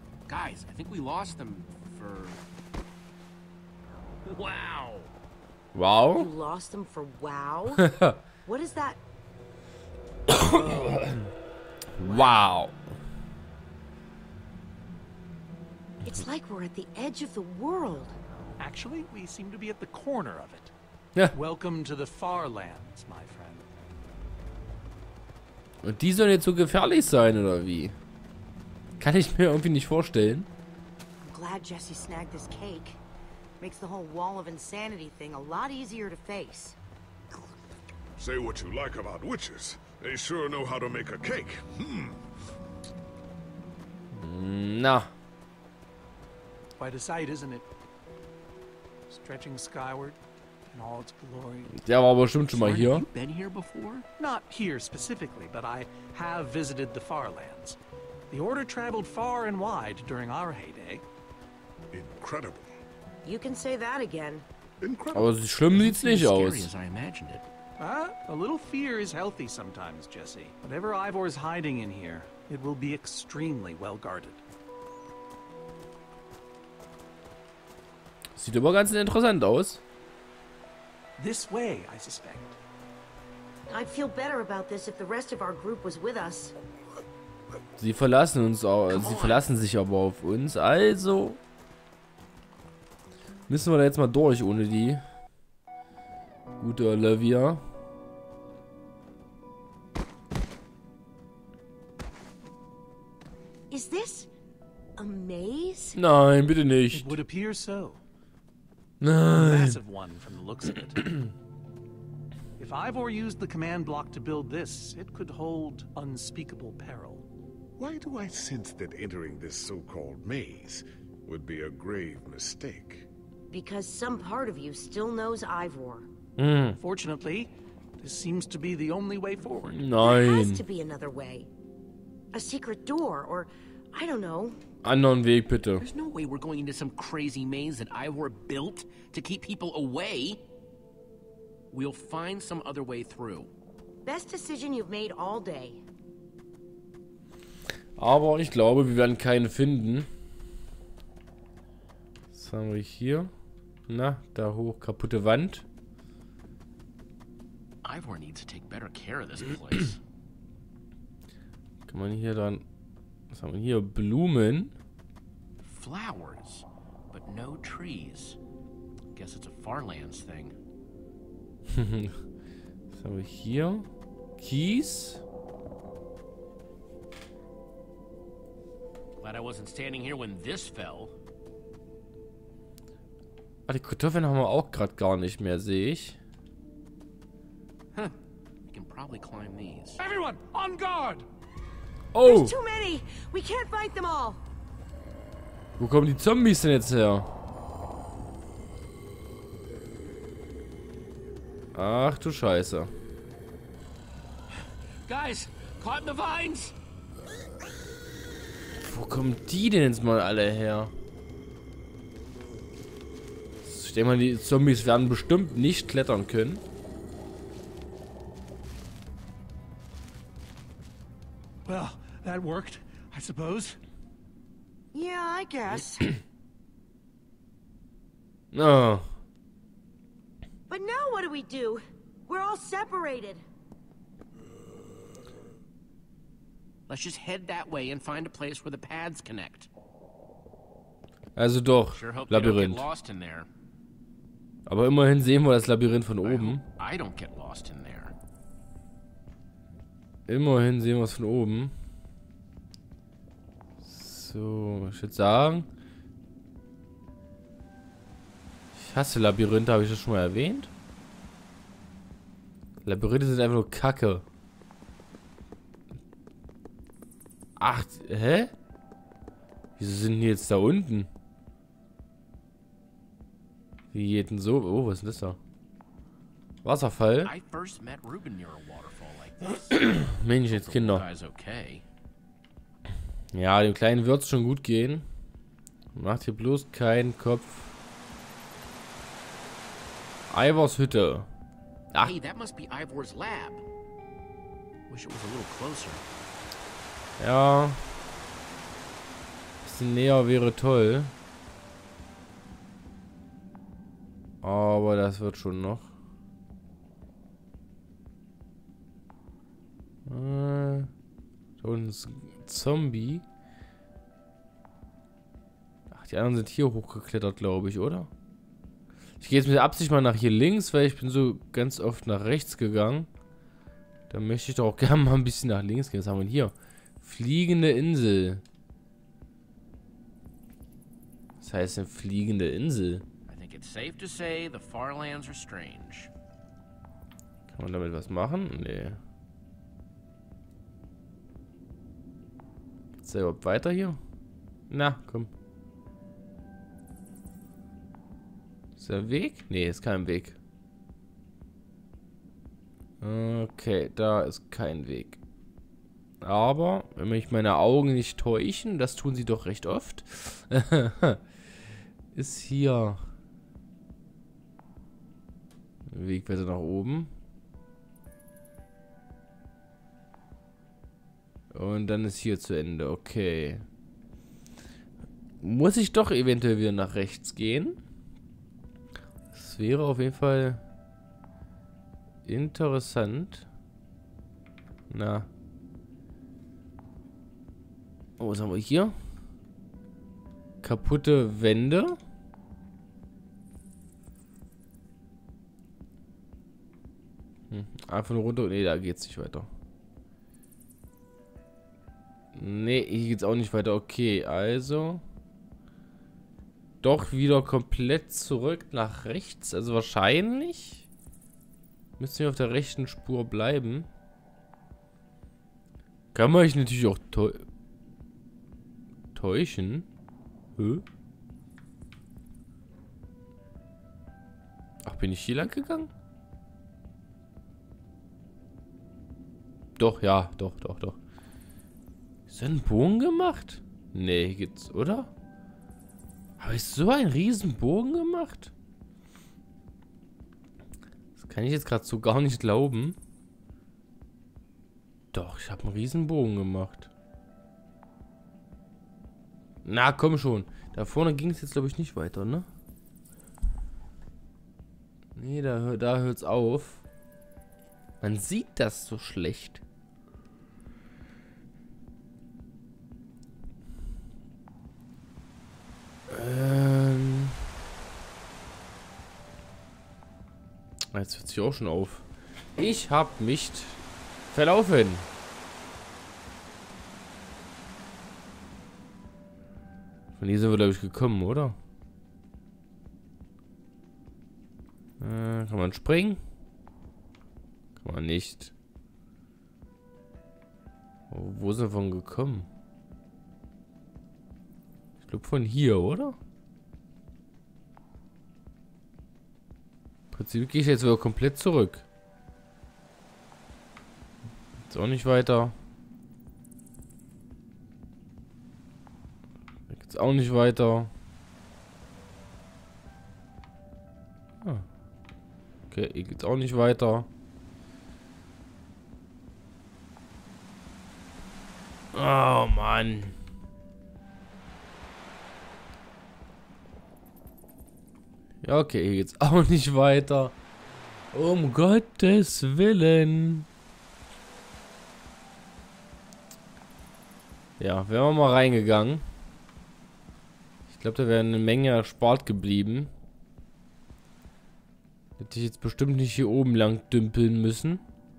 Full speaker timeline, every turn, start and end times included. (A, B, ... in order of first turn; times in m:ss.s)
0:00.3-0:02.4 A
0:04.2-0:05.1 A
0:05.7-0:06.3 B
0:06.1-0:07.9 C
0:07.8-0:08.1 B
0:08.4-0:09.0 C
0:10.3-0:11.3 B
0:12.0-0:12.8 B
0:16.0-0:18.1 C
0:18.6-0:20.7 D
0:21.3-0:23.7 D
0:25.8-0:27.9 B
0:29.0-0:30.5 B
0:31.2-0:33.0 C
0:33.6-0:36.8 C
0:38.2-0:42.2 E
0:44.1-0:45.1 B
0:46.8-0:47.6 D
0:49.1-0:50.2 D
0:50.7-0:51.7 D
0:51.7-0:53.0 B
0:52.5-0:54.1 A
0:54.2-0:57.8 D
0:58.3-1:01.0 D
1:01.9-1:02.7 E
1:03.2-1:04.4 C
1:04.8-1:05.4 E
1:05.1-1:06.7 B
1:05.7-1:07.4 A
1:07.8-1:14.4 D
1:18.4-1:19.8 B
1:21.2-1:22.6 D
1:23.7-1:26.5 C
1:27.8-1:31.4 B
1:28.9-1:29.4 A
1:33.5-1:35.0 B
1:36.6-1:37.6 B
1:43.7-1:44.3 C
1:45.0-1:46.0 C
1:46.0-1:47.2 B
1:46.9-1:48.0 D
1:49.0-1:49.7 B
1:49.3-1:51.2 D
1:52.6-1:57.2 D
1:57.8-2:03.1 E
2:03.5-2:06.1 C
2:06.4-2:06.8 B
2:06.8-2:09.8 D
2:09.6-2:10.6 B
2:10.0-2:11.5 C
2:12.3-2:14.6 C
2:14.8-2:15.8 B
2:15.8-2:20.4 A
2:21.7-2:23.5 A
2:24.0-2:25.8 C
2:28.0-2:30.1 B
2:32.3-2:33.3 B
2:33.9-2:35.6 B
2:37.8-2:40.0 A
2:41.9-2:42.6 B
2:43.3-2:44.7 B
2:45.6-2:48.4 A
2:49.1-2:50.6 A
2:51.7-2:52.2 B
2:52.9-2:55.2 B
2:59.2-3:01.1 A
3:03.7-3:06.2 B
3:08.7-3:10.0 A
3:10.0-3:11.2 D
3:12.1-3:12.5 B
3:12.2-3:14.4 C
3:15.8-3:17.3 B
3:21.7-3:22.9 B
3:25.0-3:26.7 A
3:28.8-3:30.9 B
3:33.6-3:36.6 B
3:41.6-3:43.8 D
3:44.9-3:46.2 C
3:48.5-3:49.1 B
3:50.7-3:53.4 C
3:56.9-3:59.7 A
4:01.4-4:02.9 B
4:01.9-4:03.5 A
4:04.7-4:06.6 B
4:06.2-4:08.1 A
4:10.3-4:11.7 B
4:13.8-4:15.7 B
4:18.7-4:20.7 B
4:22.8-4:24.2 B
4:27.6-4:28.5 B
4:29.8-4:31.1 B
4:33.9-4:35.4 B
4:36.6-4:37.3 B
4:37.2-4:39.8 A
4:39.7-4:41.1 B
4:40.4-4:41.8 A
4:43.3-4:45.0 B
4:45.9-4:47.7 B
4:50.3-4:51.3 B
4:52.0-4:53.6 A
4:54.9-4:56.0 A
4:57.2-4:57.8 B
4:59.6-5:01.1 B
5:04.4-5:05.9 B
5:10.1-5:10.9 B
5:11.6-5:13.2 B
5:15.9-5:18.1 B
5:19.2-5:23.1 B
5:24.1-5:28.4 B
5:31.4-5:33.0 B
5:33.3-5:36.1 A
5:37.5-5:39.0 B
5:43.0-5:44.0 B
5:44.7-5:45.3 B
5:48.8-5:50.4 B
5:53.0-5:55.2 B
5:56.2-6:01.2 B
6:02.1-6:03.0 B
6:05.9-6:07.1 B
6:11.5-6:13.6 B
6:15.4-6:17.8 B
6:19.3-6:20.6 B
6:22.2-6:23.5 B
6:24.9-6:25.3 B
6:28.2-6:28.9 B
6:30.6-6:32.0 B
6:37.5-6:39.5 B
6:42.3-6:45.0 B
6:46.8-6:50.9 B
6:52.0-6:53.9 B
6:56.1-6:57.4 B
6:59.1-6:59.9 B
7:00.6-7:00.8 B
7:04.8-7:05.9 B
7:09.8-7:11.0 B
7:12.3-7:15.1 B
7:16.4-7:18.5 B
7:21.2-7:23.0 B
7:25.1-7:26.9 B
7:29.6-7:32.5 B
7:35.2-7:36.8 B
7:38.0-7:39.6 B
7:46.1-7:47.4 B
7:50.9-7:55.1 B
8:00.2-8:01.6 B
8:05.0-8:06.2 B
8:07.8-8:08.5 B
8:11.1-8:12.5 B
8:15.0-8:16.2 B
8:20.1-8:21.8 B
8:24.7-8:25.5 B
8:29.7-8:30.9 B
8:35.7-8:37.1 B
8:41.9-8:43.2 B
8:48.4-8:50.4 B
8:51.1-8:53.5 B
8:57.6-8:59.0 B
9:00.7-9:02.9 B
9:05.2-9:07.8 B